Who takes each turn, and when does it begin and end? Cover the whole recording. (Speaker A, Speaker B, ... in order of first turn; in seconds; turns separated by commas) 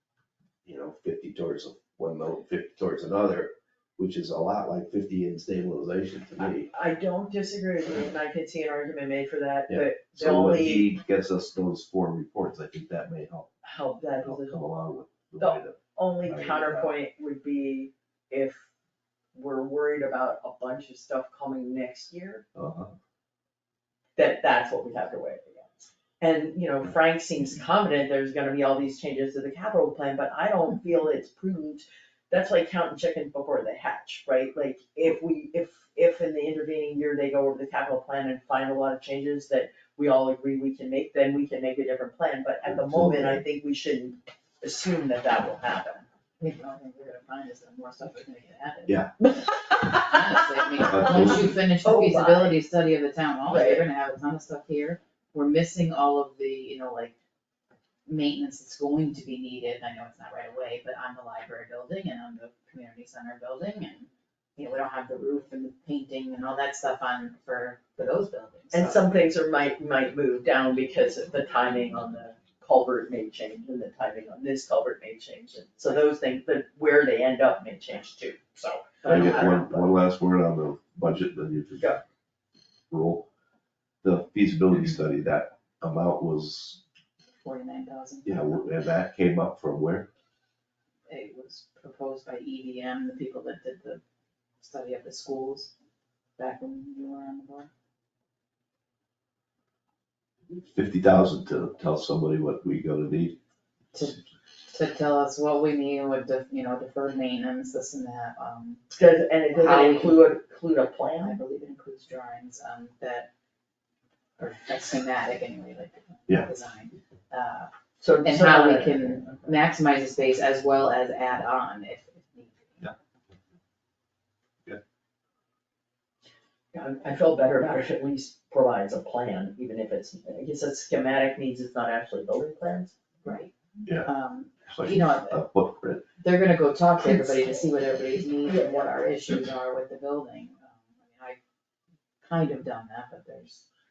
Speaker A: 0.6-6.7, Speaker B: 6.4-10.9, Speaker A: 9.7-13.5, Speaker B: 13.6-14.7, Speaker A: 14.2-16.9, Speaker B: 15.4-18.7, Speaker B: 19.3-22.4, Speaker A: 22.6-22.9, Speaker B: 24.1-46.0, Speaker A: 42.6-43.4, Speaker C: 46.4-49.0, Speaker B: 49.3-50.1, Speaker C: 50.0-57.1, Speaker A: 50.9-51.6, Speaker B: 51.8-52.6, Speaker B: 53.5-53.8, Speaker C: 58.0-69.0, Speaker B: 68.7-79.9, Speaker A: 79.0-81.9, Speaker A: 82.9-83.2, Speaker A: 84.0-86.8, Speaker C: 87.3-88.6, Speaker A: 88.2-90.1, Speaker C: 91.1-94.0, Speaker C: 94.6-95.7, Speaker C: 96.4-97.7, Speaker A: 100.5-103.4, Speaker C: 103.9-108.8, Speaker B: 108.9-111.4, Speaker C: 109.5-110.2, Speaker C: 111.2-113.3, Speaker C: 114.4-117.7, Speaker B: 118.0-119.2, Speaker C: 118.2-122.9, Speaker B: 126.7-132.9, Speaker C: 133.2-135.4, Speaker A: 134.7-136.0, Speaker C: 136.2-141.4, Speaker B: 137.0-137.6, Speaker B: 138.4-139.4, Speaker C: 142.2-143.6